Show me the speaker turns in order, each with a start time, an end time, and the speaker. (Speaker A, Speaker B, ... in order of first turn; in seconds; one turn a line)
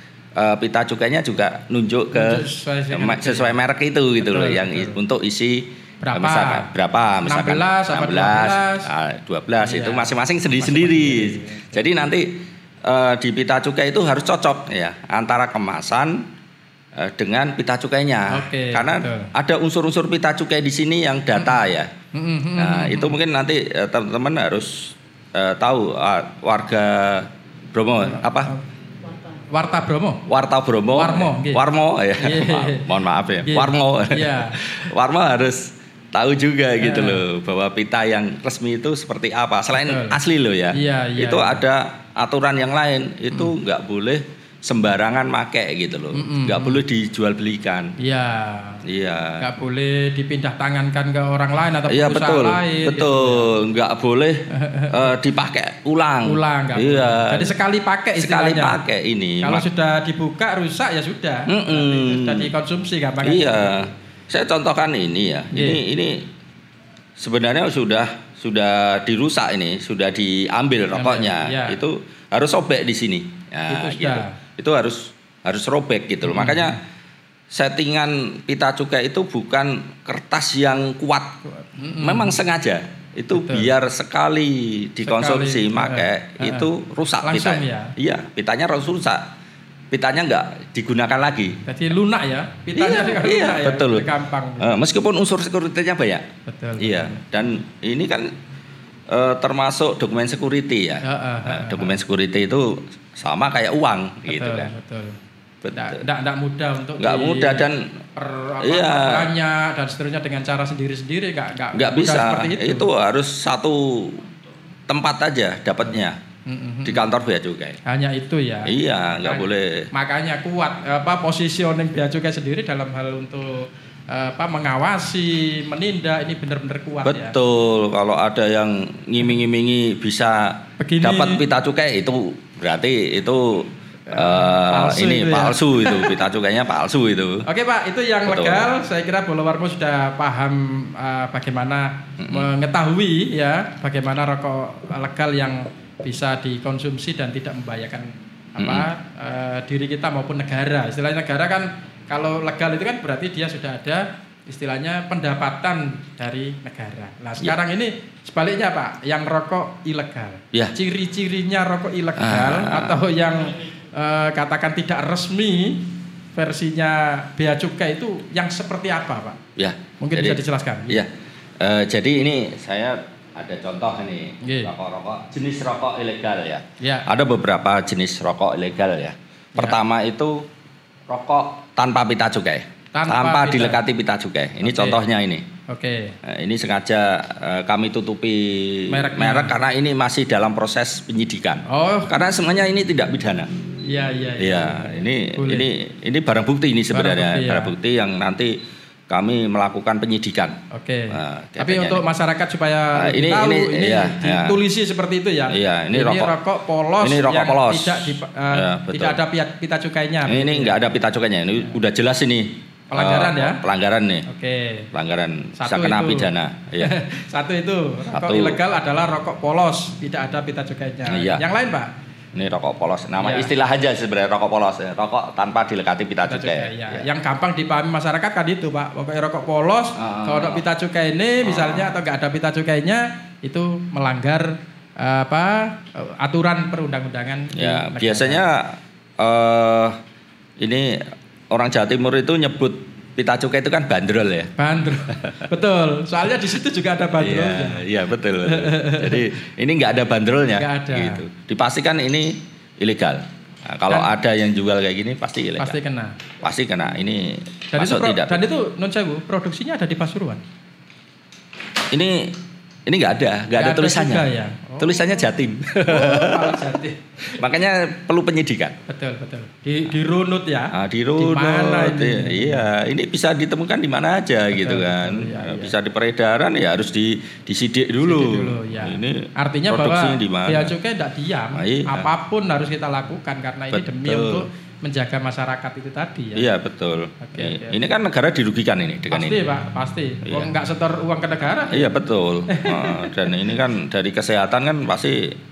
Speaker A: 0.4-16.2
Speaker B: 2.1-3.6
Speaker B: 4.2-5.0
Speaker B: 6.0-6.7
Speaker B: 7.2-8.9
Speaker B: 9.6-11.7
Speaker A: 16.9-21.9
Speaker B: 18.3-19.3
Speaker B: 21.4-21.6
Speaker B: 22.1-23.1
Speaker A: 22.6-28.5
Speaker B: 28.0-28.6
Speaker B: 29.3-30.2
Speaker A: 30.2-47.9
Speaker B: 30.9-31.6
Speaker B: 32.2-32.9
Speaker B: 33.4-34.9
Speaker B: 36.8-37.2
Speaker B: 39.7-40.2
Speaker B: 40.7-41.6
Speaker B: 46.1-46.8
Speaker B: 48.0-48.8
Speaker A: 48.8-49.5
Speaker B: 49.4-53.5
Speaker A: 51.9-57.6
Speaker B: 54.5-55.1
Speaker B: 56.2-58.8
Speaker A: 58.2-59.7
Speaker B: 59.4-63.8
Speaker A: 61.5-62.5
Speaker A: 63.2-66.3
Speaker B: 65.5-65.8
Speaker A: 67.2-76.8
Speaker B: 70.9-71.8
Speaker B: 73.7-74.3
Speaker B: 76.2-76.8
Speaker A: 77.5-81.4
Speaker B: 81.6-82.4
Speaker A: 82.0-89.3
Speaker B: 83.3-83.7
Speaker B: 85.0-86.7
Speaker B: 87.2-87.9
Speaker A: 89.9-91.6
Speaker B: 91.6-94.8
Speaker A: 92.7-96.3
Speaker B: 96.5-97.2
Speaker A: 96.8-98.3
Speaker A: 99.1-104.7
Speaker B: 101.0-102.0
Speaker B: 104.3-105.2
Speaker A: 105.6-106.0
Speaker B: 105.7-112.9
Speaker A: 107.0-107.9
Speaker A: 108.6-109.3
Speaker A: 111.7-114.3
Speaker A: 114.9-116.2
Speaker B: 116.5-117.0
Speaker A: 116.8-117.8
Speaker B: 117.8-127.3
Speaker A: 118.6-119.9
Speaker A: 127.0-137.4
Speaker B: 130.8-131.4
Speaker B: 134.1-136.2
Speaker B: 137.4-169.4
Speaker A: 138.2-138.7
Speaker A: 142.2-142.5
Speaker A: 148.6-148.9
Speaker A: 162.2-163.0
Speaker A: 169.6-180.5
Speaker B: 170.0-171.0
Speaker B: 174.4-174.7
Speaker B: 176.8-177.1
Speaker A: 181.1-185.5
Speaker B: 182.9-183.8
Speaker B: 184.6-185.0
Speaker B: 185.7-186.2
Speaker A: 186.2-193.5
Speaker B: 188.9-189.5
Speaker B: 191.7-192.2
Speaker B: 193.8-195.7
Speaker A: 194.4-198.6
Speaker B: 196.9-197.7
Speaker A: 199.1-202.0
Speaker B: 200.7-210.8
Speaker A: 202.9-204.6
Speaker A: 205.5-206.3
Speaker A: 207.0-209.2
Speaker A: 210.2-214.2
Speaker B: 212.9-213.6
Speaker B: 214.3-214.9
Speaker A: 214.9-216.9
Speaker B: 215.6-221.9
Speaker A: 218.1-218.6
Speaker A: 221.1-221.4
Speaker A: 222.3-227.1
Speaker B: 223.2-223.5
Speaker B: 226.3-238.4
Speaker A: 229.9-230.6
Speaker A: 231.4-231.9
Speaker A: 237.5-240.0
Speaker A: 240.6-244.5
Speaker B: 244.6-247.8
Speaker A: 245.1-245.4
Speaker A: 247.2-255.8
Speaker B: 248.4-249.3
Speaker B: 250.5-251.2
Speaker B: 255.6-256.2
Speaker A: 256.4-258.4
Speaker B: 257.7-260.4
Speaker A: 261.9-262.4
Speaker A: 262.9-264.2
Speaker B: 263.6-265.3
Speaker A: 264.8-266.6
Speaker B: 265.9-267.4
Speaker A: 267.4-268.8
Speaker B: 268.9-272.6
Speaker A: 270.7-280.7
Speaker B: 274.5-275.7
Speaker B: 278.0-286.5
Speaker A: 281.5-282.1
Speaker A: 283.7-284.4
Speaker A: 286.4-289.4
Speaker B: 287.2-287.8
Speaker B: 289.1-293.4
Speaker A: 290.2-290.5
Speaker A: 291.7-295.4